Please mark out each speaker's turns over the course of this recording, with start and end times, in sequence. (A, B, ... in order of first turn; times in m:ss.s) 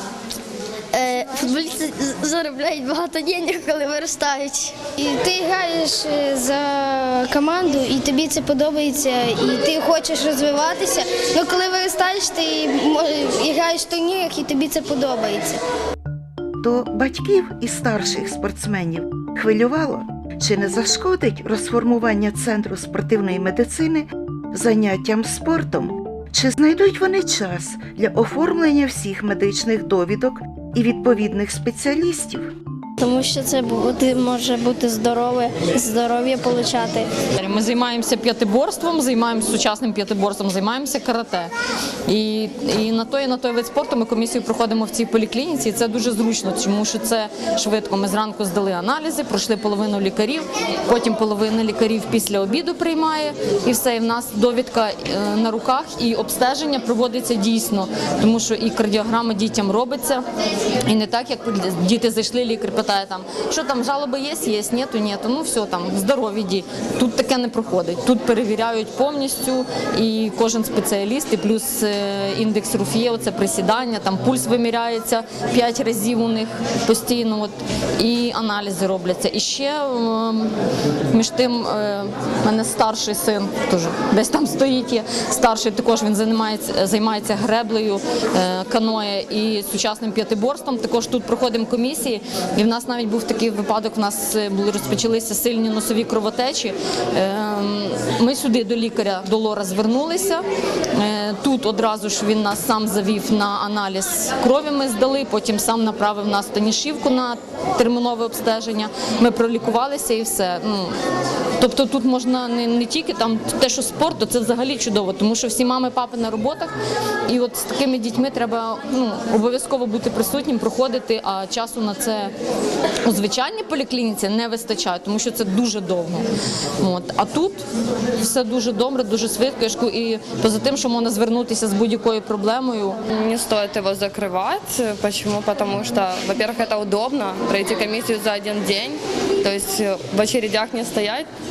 0:00.9-0:04.8 A
0:05.0-0:15.6 B
0:16.6-0:32.5 C
0:33.0-0:37.1 B
0:37.4-0:41.5 D
0:42.1-1:00.2 D
1:00.8-1:20.5 D
1:21.1-1:40.4 D
1:40.9-1:51.0 D
1:51.6-1:56.7 D
1:57.3-2:02.3 D
2:03.0-2:06.2 D
2:06.8-2:07.6 D
2:08.2-2:13.0 D
2:13.1-2:21.3 E